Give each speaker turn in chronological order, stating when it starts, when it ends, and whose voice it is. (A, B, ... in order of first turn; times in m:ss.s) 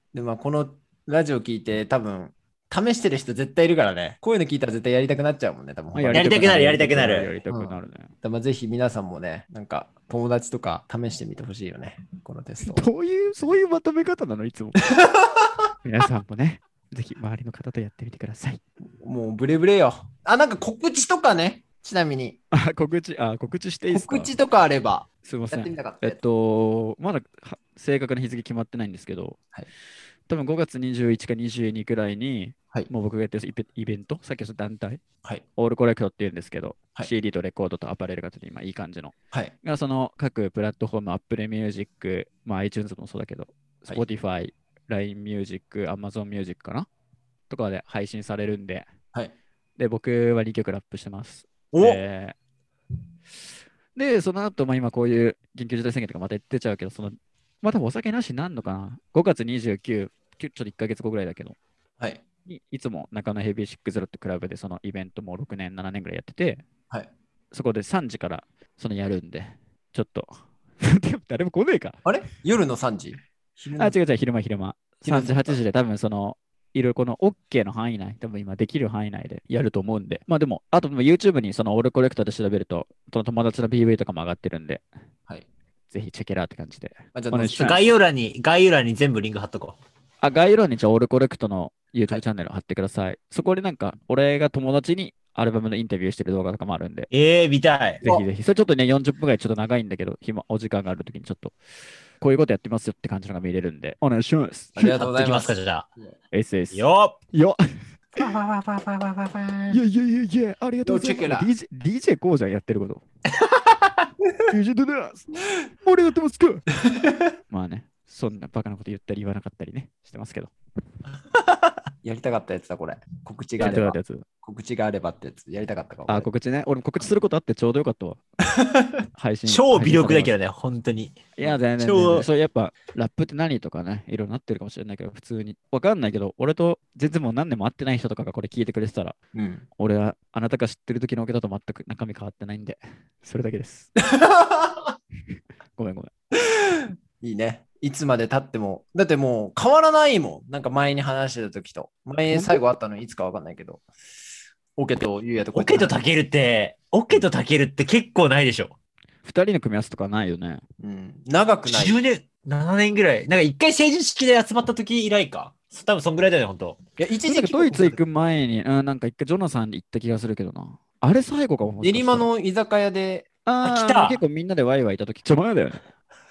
0:00.1-0:06.4 A
0:05.9-0:08.1 B
0:06.1-0:07.3 C
0:07.4-0:12.8 A
0:12.6-0:14.8 B
0:15.8-0:18.6 B
0:19.0-0:22.4 A
0:22.5-0:24.3 B
0:23.9-0:26.2 A
0:25.2-0:29.4 B
0:30.3-0:35.0 B
0:35.6-0:46.9 B
0:47.5-0:48.9 B
0:49.8-0:52.4 B
0:51.7-0:52.0 A
0:53.9-1:01.6 B
1:02.5-1:06.6 B
1:07.5-1:10.3 B
1:10.8-1:12.0 B
1:12.0-1:14.0 A
1:13.8-1:24.8 B
1:15.0-1:15.6 A
1:25.9-1:27.8 B
1:27.1-1:27.7 A
1:27.6-1:29.8 C
1:30.2-1:37.1 B
1:37.1-1:38.2 C
1:38.0-1:41.5 B
1:42.2-1:45.0 B
1:44.8-1:46.1 A
1:44.8-1:45.9 C
1:46.3-1:47.6 B
1:46.7-1:47.2 C
1:48.2-1:49.4 C
1:49.7-1:53.0 B
1:50.9-1:51.5 A
1:54.5-1:55.3 B
1:55.8-1:56.6 B
1:57.5-2:00.5 B
2:02.0-2:06.3 A
2:03.6-2:04.2 B
2:06.1-2:08.2 B
2:09.1-2:10.4 B
2:09.4-2:12.3 C
2:11.4-2:19.2 B
2:19.4-2:19.6 A
2:19.8-2:23.9 B
2:24.3-2:24.9 A
2:25.8-2:26.1 B
2:27.2-2:33.8 A
2:32.3-2:32.6 B
2:34.8-2:36.0 A
2:35.4-2:38.7 C
2:39.2-2:40.6 B
2:40.8-2:42.0 A
2:41.6-2:46.8 C
2:47.0-2:48.0 A
2:47.2-2:52.3 B
2:51.8-2:53.3 A
2:53.4-2:55.8 B
2:53.6-2:54.2 C